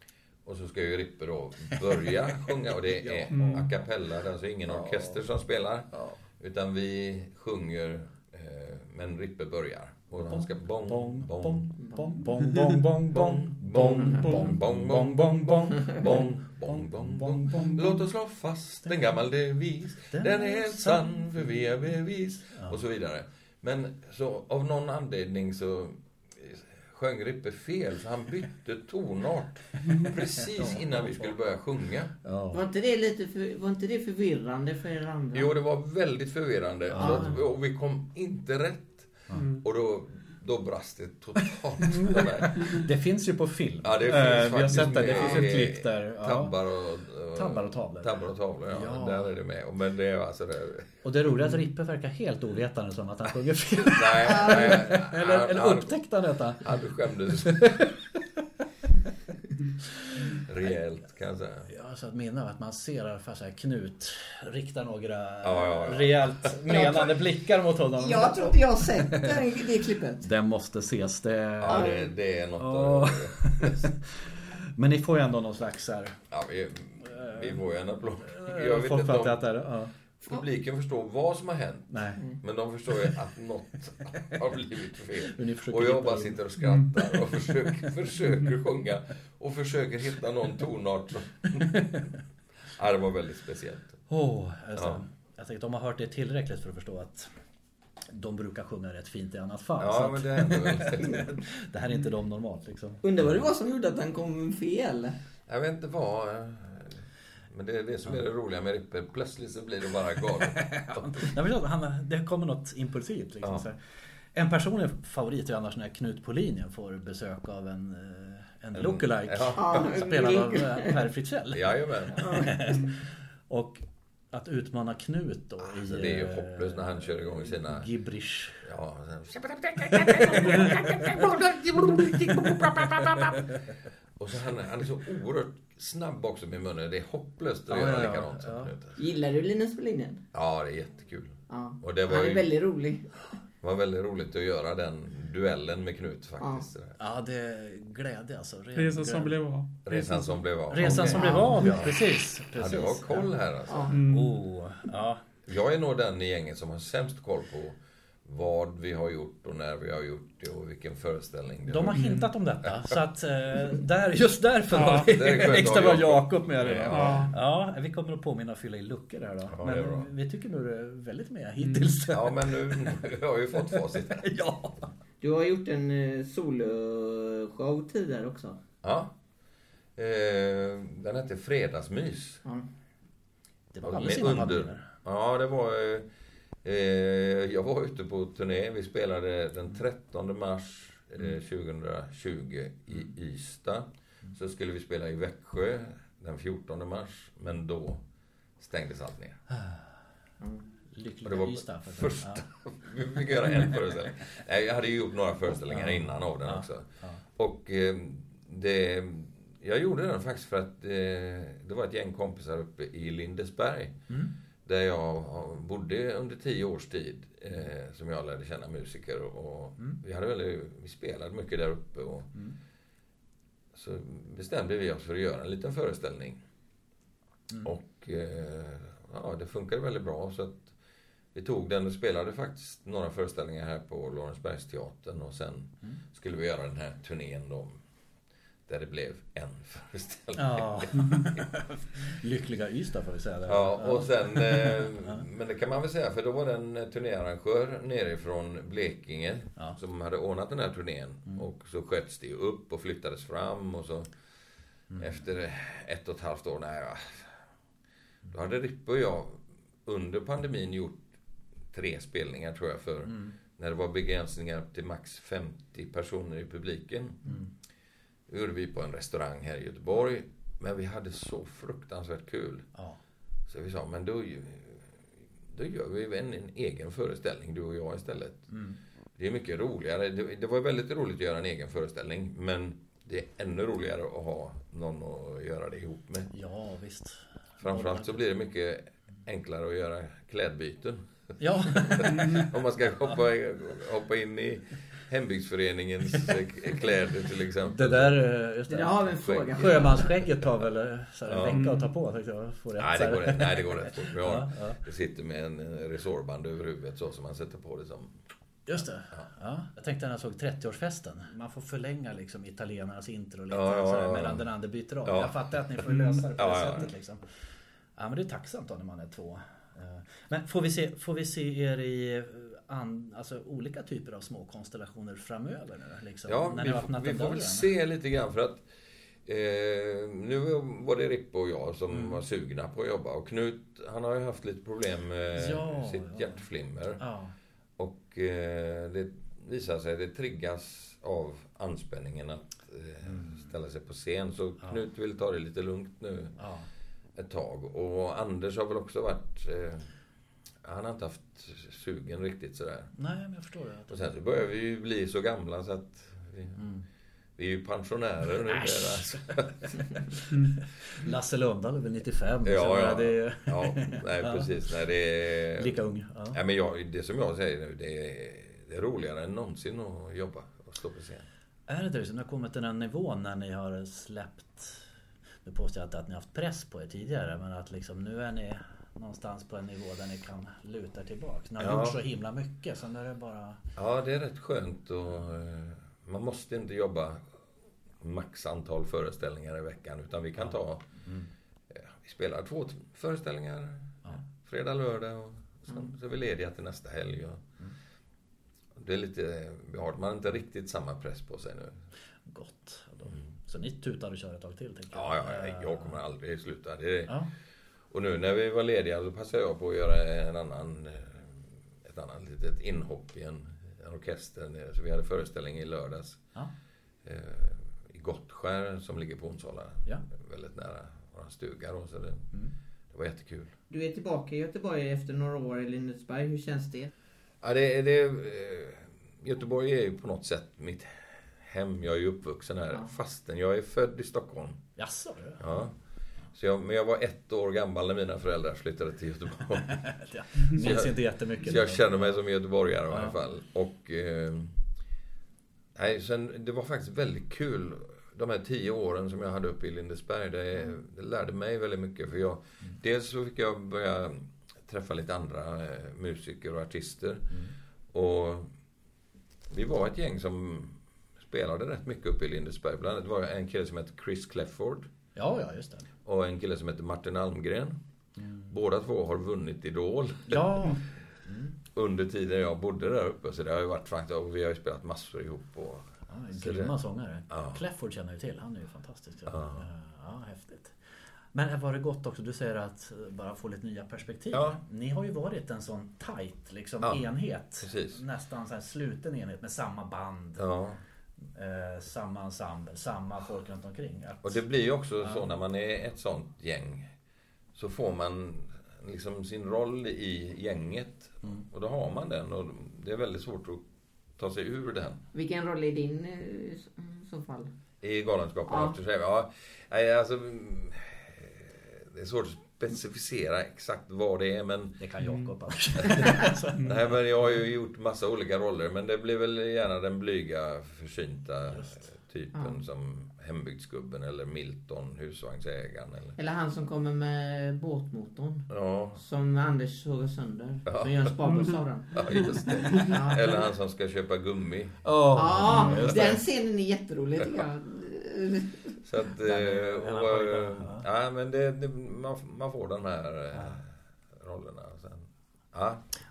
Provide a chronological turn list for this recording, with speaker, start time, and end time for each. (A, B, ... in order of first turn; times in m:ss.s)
0:00.4-0:11.7 A
0:02.9-0:03.7 B
0:03.3-0:03.7 C
0:04.7-0:05.2 B
0:10.2-0:18.0 B
0:11.8-0:12.1 D
0:13.1-0:32.1 A
0:20.1-0:21.2 B
0:30.5-0:31.3 B
0:32.2-0:32.6 B
0:32.5-0:35.5 D
0:35.3-0:42.9 A
0:36.9-0:37.4 B
0:36.9-0:37.3 D
0:39.4-0:39.6 C
0:41.9-0:46.6 B
0:43.8-0:51.0 A
0:47.3-0:48.1 B
0:48.7-0:49.3 B
0:51.0-0:56.8 B
0:53.8-0:56.0 A
0:56.6-0:57.8 A
0:57.3-0:58.2 B
1:00.4-1:01.7 A
1:01.7-1:09.4 B
1:05.4-1:06.6 A
1:06.7-1:07.2 D
1:08.0-1:10.3 D
1:10.2-1:12.0 B
1:11.6-1:13.9 A
1:11.7-1:12.0 D
1:12.6-1:16.2 B
1:16.3-1:19.4 A
1:18.3-1:19.9 B
1:20.2-1:31.8 A
1:21.9-1:22.2 B
1:25.2-1:26.4 B
1:31.6-1:32.0 B
1:32.7-1:34.0 A
1:34.1-1:37.3 B
1:34.8-1:35.0 A
1:38.1-1:43.0 B
1:39.8-1:41.3 A
1:43.0-1:45.2 D
1:45.5-1:47.0 A
1:47.5-1:51.3 A
1:50.6-1:53.8 B
1:54.3-2:08.6 B
1:58.7-1:59.9 A
1:59.6-2:01.0 D
2:01.5-2:02.5 A
2:02.2-2:02.6 D
2:05.8-2:07.9 A
2:08.6-2:13.5 A
2:09.9-2:11.1 B
2:14.2-2:19.0 A
2:17.7-2:18.7 B
2:19.0-2:20.2 D
2:20.3-2:22.5 A
2:21.5-2:23.3 D
2:23.6-2:27.0 A
2:26.4-2:26.6 D
2:27.0-2:29.4 B
2:28.8-2:29.7 C
2:29.8-2:32.0 A
2:29.9-2:33.3 B
2:31.0-2:31.8 D
2:32.5-2:33.9 A
2:33.7-2:34.0 D
2:33.9-2:34.4 C
2:33.9-2:35.2 B
2:35.4-2:43.0 A
2:41.6-2:53.0 B
2:41.9-2:42.3 C
2:44.7-2:45.1 C
2:44.8-2:47.3 A
2:46.9-2:47.3 C
2:49.5-2:50.1 A
2:51.6-2:51.9 C
2:52.1-2:54.2 A
2:53.6-2:54.9 B
2:55.2-2:58.6 D
2:58.8-2:59.1 A
3:00.0-3:02.4 A
3:03.7-3:04.8 B
3:03.8-3:06.1 A
3:06.6-3:18.0 A
3:18.6-3:19.4 A
3:20.9-3:22.4 B
3:21.2-3:34.0 A
3:25.7-3:27.2 B
3:34.6-3:42.3 A
3:43.7-3:46.4 A
3:47.6-3:50.7 A
3:51.3-3:57.8 A
3:58.7-4:01.4 A
4:00.4-4:05.2 B
4:03.5-4:14.1 A
4:15.0-4:17.3 A
4:18.3-4:21.0 A
4:21.7-4:27.2 A
4:23.0-4:23.3 B
4:28.3-4:32.7 A
4:33.5-4:34.9 A
4:35.5-4:38.5 A
4:38.5-4:38.8 B
4:39.2-4:46.3 A
4:46.3-4:48.2 B
4:47.6-4:58.3 A
4:51.4-4:52.5 B
4:57.6-5:04.8 B
4:58.7-5:00.1 D
4:59.1-4:59.7 A
5:01.2-5:01.6 A
5:01.5-5:01.9 C
5:02.8-5:08.2 A
5:08.6-5:17.2 B
5:13.5-5:14.4 A
5:15.0-5:16.9 A
5:18.0-5:27.7 B
5:26.2-5:28.6 A
5:29.2-5:37.0 A
5:31.9-5:32.2 B
5:35.4-5:36.4 B
5:37.0-5:37.3 B
5:37.8-5:46.4 A
5:43.0-5:43.5 B
5:46.4-5:46.7 B
5:47.2-5:49.9 A
5:50.6-5:52.9 A
5:52.9-5:54.0 B
5:53.9-5:56.6 A
5:56.6-5:56.8 B
5:57.4-5:59.8 A
5:58.4-5:59.3 B
5:59.9-6:04.5 B
6:02.4-6:05.8 A
6:05.6-6:06.4 B
6:06.3-6:11.2 A
6:11.7-6:14.8 B
6:15.4-6:23.6 B
6:21.6-6:22.0 A
6:23.8-6:27.2 A
6:28.0-6:30.9 A
6:30.4-6:31.3 B
6:31.7-6:37.4 A
6:38.8-6:41.8 A
6:42.2-6:46.0 B
6:44.9-6:47.2 A
6:47.9-6:56.2 A
6:57.0-7:02.3 A
7:02.9-7:03.5 A
7:03.7-7:06.9 D
7:07.4-7:14.6 A
7:14.8-7:15.5 B
7:15.4-7:15.7 A
7:16.3-7:19.8 A
7:19.7-7:22.2 B
7:20.5-7:24.6 A
7:22.9-7:23.2 B
7:25.7-7:37.3 A
7:37.9-7:38.5 A
7:39.5-7:44.9 A
7:45.1-7:45.9 B
7:46.0-7:47.8 A
7:48.2-7:48.5 B
7:48.5-7:50.8 A
7:50.3-7:51.5 B
7:51.7-7:56.7 A
7:56.1-8:00.8 B
7:57.3-7:57.6 A
7:59.3-7:59.6 A
8:01.3-8:10.4 B
8:04.3-8:04.6 A
8:07.6-8:08.0 A
8:10.4-8:10.8 A
8:11.3-8:14.4 B
8:14.2-8:16.9 A
8:17.5-8:23.6 A
8:24.2-8:25.0 A
8:25.1-8:27.5 D
8:27.8-8:34.8 A
8:28.5-8:28.7 D
8:34.8-8:36.8 B
8:35.8-8:46.2 A
8:46.2-8:53.4 D
8:48.5-8:49.0 A
8:50.6-8:51.1 A
8:51.9-8:54.8 A
8:54.8-8:56.2 B
8:55.1-8:58.7 D
8:58.8-9:05.8 A
8:59.2-9:00.9 B